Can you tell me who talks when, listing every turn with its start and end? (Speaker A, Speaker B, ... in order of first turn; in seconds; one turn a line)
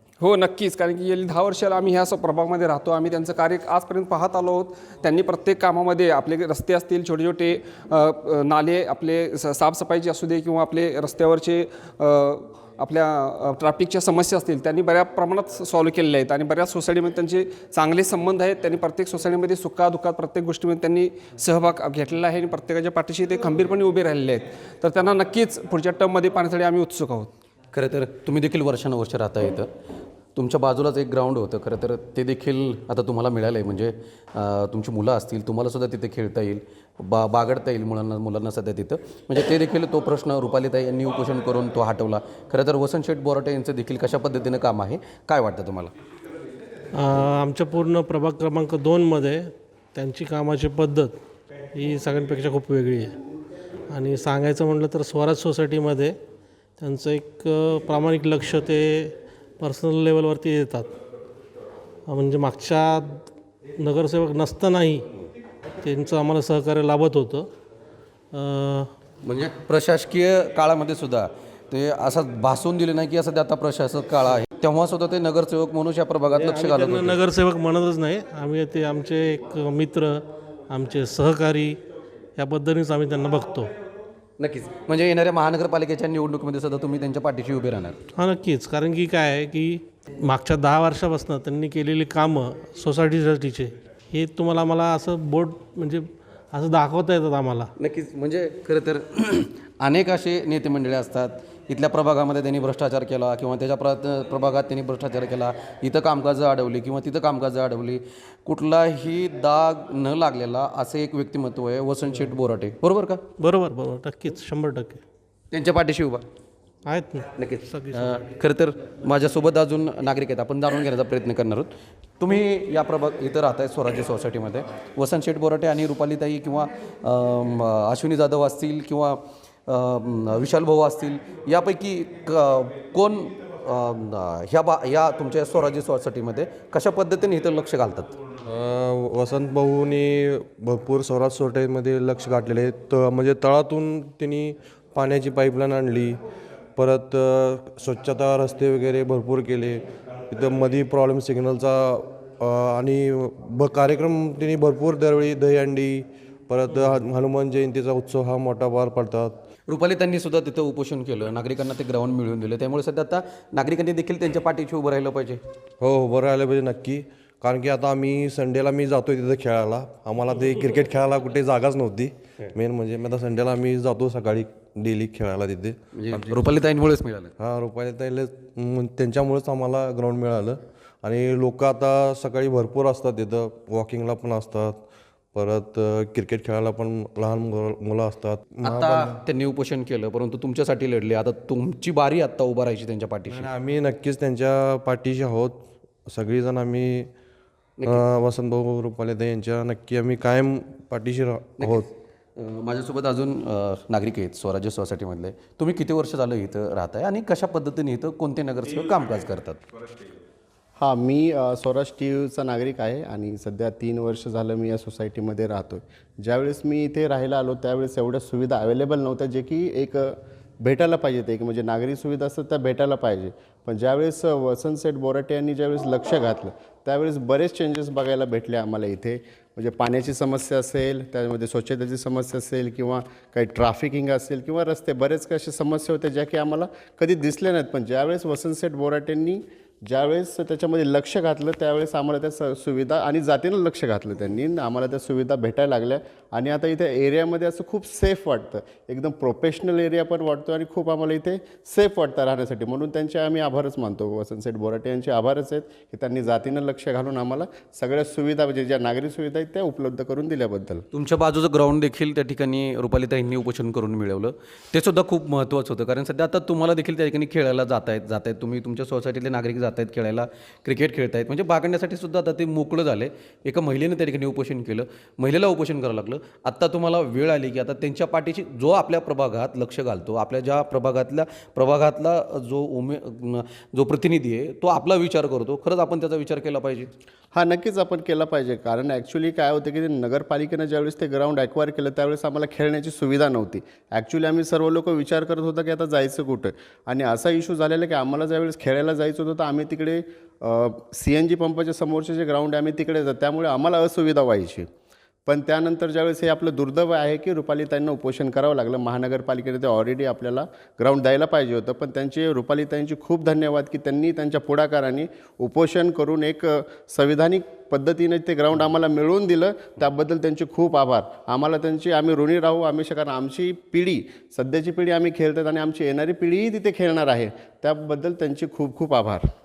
Speaker A: 0.2-27.3
Speaker B: 27.7-29.7
Speaker B: 30.4-45.9
Speaker C: 47.0-51.1
Speaker C: 51.8-53.1
Speaker C: 53.9-56.1
Speaker C: 56.8-60.9
Speaker C: 62.1-63.3
Speaker C: 63.8-65.1
Speaker C: 65.8-67.5
Speaker C: 68.3-68.9
Speaker B: 69.2-77.2
Speaker C: 76.3-81.8
Speaker C: 82.4-83.7
Speaker B: 84.4-88.0
Speaker C: 88.2-97.7
Speaker B: 97.8-113.2
Speaker C: 113.4-115.0
Speaker B: 115.5-116.2
Speaker C: 116.9-118.2
Speaker B: 117.4-121.7
Speaker B: 122.2-138.2
Speaker D: 138.5-146.2
Speaker D: 146.8-159.4
Speaker B: 159.7-165.4
Speaker D: 165.8-176.5
Speaker B: 176.0-177.3
Speaker D: 177.4-184.8
Speaker D: 185.3-189.2
Speaker B: 188.6-193.5
Speaker D: 193.2-197.1
Speaker B: 197.8-198.1
Speaker D: 197.8-201.9
Speaker B: 201.6-201.9
Speaker B: 202.4-209.6
Speaker E: 210.8-260.8
Speaker B: 260.9-286.9
Speaker E: 287.3-304.7
Speaker E: 305.3-329.2